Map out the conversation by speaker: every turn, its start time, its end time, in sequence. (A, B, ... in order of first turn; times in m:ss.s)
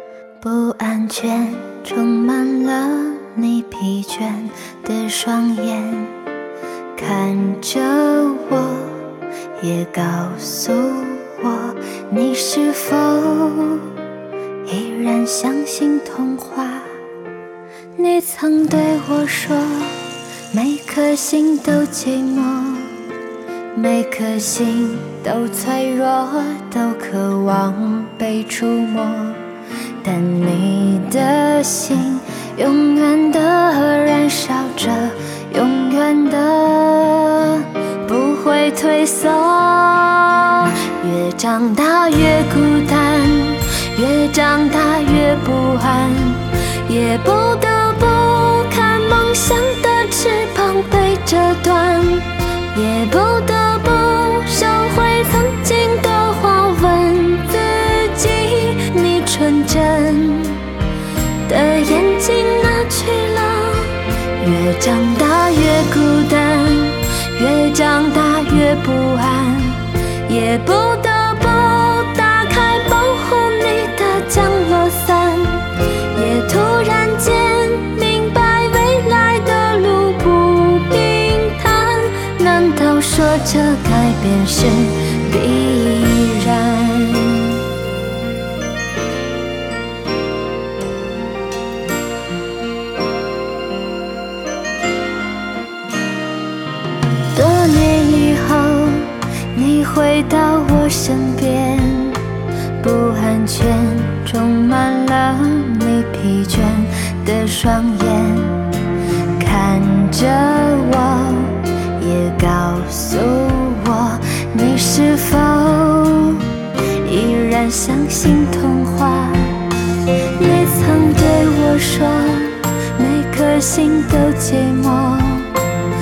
0:00.4-0:06.2 A
0:07.0-0:09.0 A
0:09.6-0:13.9 A
0:14.7-0:16.9 A
0:18.0-0:20.0 A
0:20.5-0:23.0 A
0:23.7-0:29.4 A
0:30.0-1:00.6 A
1:01.4-1:27.6 A
1:37.3-1:42.2 A
1:42.8-1:48.7 A
1:49.4-1:56.5 A
1:57.0-1:59.6 A
2:00.4-2:05.5 A